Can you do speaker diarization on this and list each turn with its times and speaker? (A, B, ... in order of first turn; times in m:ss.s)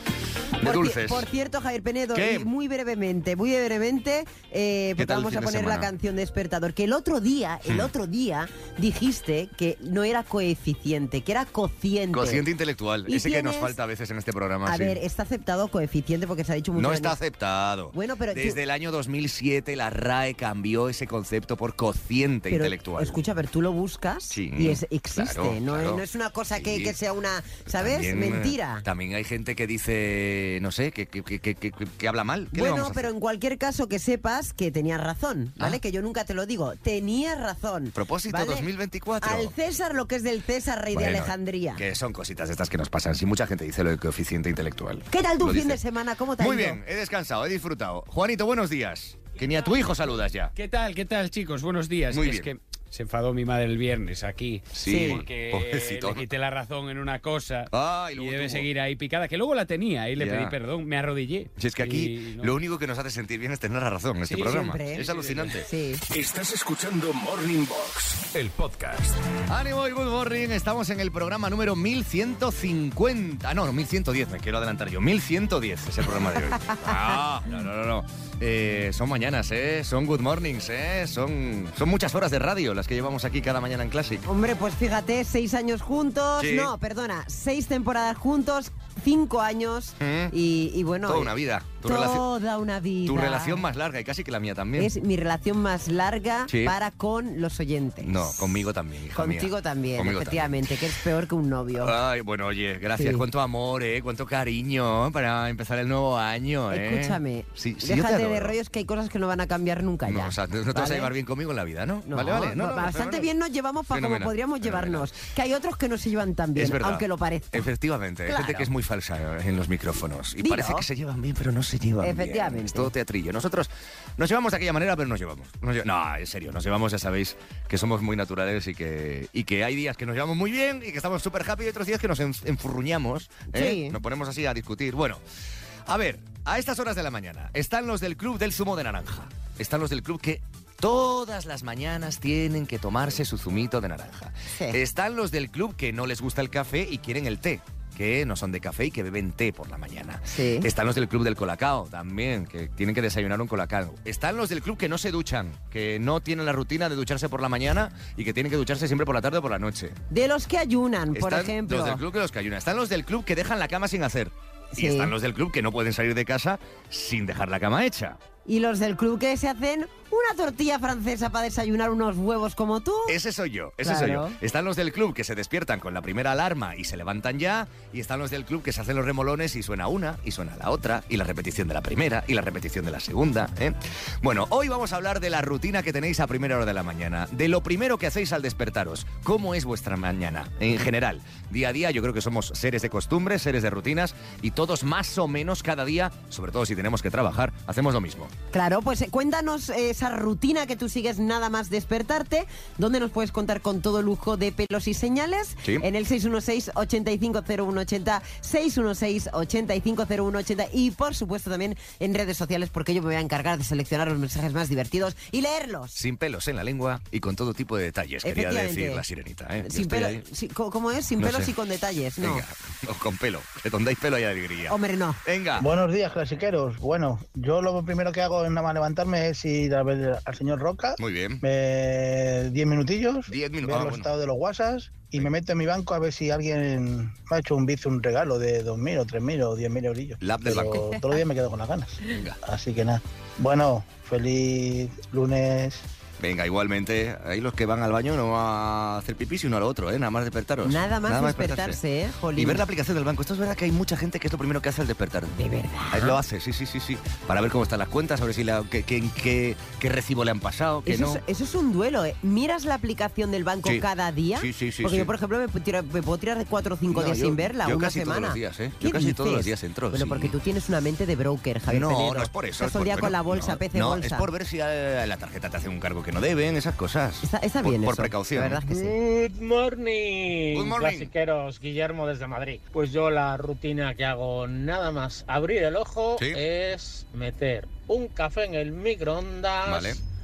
0:00.6-0:12.5 A
0:00.6-0:01.3 B
0:02.1-0:02.5 B
0:05.0-0:05.9 B
0:12.1-0:15.0 B
0:13.1-0:13.8 A
0:14.7-0:17.2 A
0:16.8-0:23.2 B
0:17.9-0:18.6 A
0:22.5-0:28.8 A
0:24.3-0:27.0 B
0:27.7-0:33.1 B
0:32.5-0:38.7 A
0:38.0-0:39.5 B
0:39.2-0:41.8 A
0:40.9-0:45.8 B
0:45.1-0:46.8 A
0:46.4-0:50.5 B
0:50.6-1:02.6 C
0:52.1-0:52.5 B
0:54.7-0:56.3 B
0:54.8-0:55.2 A
0:57.7-0:58.7 B
1:00.2-1:00.6 B
1:01.6-1:05.7 B
1:04.3-1:05.0 A
1:05.0-1:05.5 C
1:05.7-1:06.0 A
1:06.1-1:09.3 D
1:09.5-1:24.2 B
1:16.6-1:16.9 A
1:24.2-1:33.7 A
1:26.4-1:26.7 B
1:30.0-1:30.3 B
1:31.0-1:32.2 B
1:33.0-1:34.9 B
1:34.8-1:38.4 A
1:36.5-1:36.8 B
1:38.0-1:40.8 B
1:39.1-1:41.9 A
1:41.8-1:48.6 B
1:43.0-1:43.2 A
1:46.7-1:51.1 A
1:50.0-1:53.3 B
1:52.1-1:57.7 A
1:53.9-1:55.1 B
1:56.6-2:15.2 B
1:58.3-1:58.7 A
2:00.4-2:00.9 A
2:02.0-2:02.9 A
2:13.5-2:14.0 A
2:15.9-2:40.0 B
2:24.5-2:24.8 A
2:30.3-2:30.7 A
2:40.1-2:42.0 A
2:41.1-2:48.2 B
2:44.8-2:45.1 A
2:48.5-2:53.2 A
2:53.1-3:18.3 B
2:53.8-2:54.4 A
3:18.5-3:36.0 A
3:36.0-3:40.2 B
3:38.2-3:39.0 A
3:39.6-3:42.5 A
3:41.2-3:41.5 B
3:42.2-3:45.7 B
3:44.7-3:45.2 A
3:45.6-4:05.8 E
3:51.0-3:51.4 B
3:53.3-3:54.1 B
4:00.2-4:00.9 B
4:02.1-4:02.4 B
4:06.2-4:11.8 B
4:10.6-4:12.6 A
4:12.4-4:15.4 B
4:15.3-4:16.2 A
4:15.9-4:21.2 B
4:20.9-4:34.3 A
4:23.6-4:25.1 B
4:26.9-4:30.3 B
4:31.7-4:38.6 B
4:37.2-4:39.0 A
4:38.6-4:50.0 F
4:40.5-4:41.1 B
4:46.2-4:46.4 B
4:49.6-4:50.0 B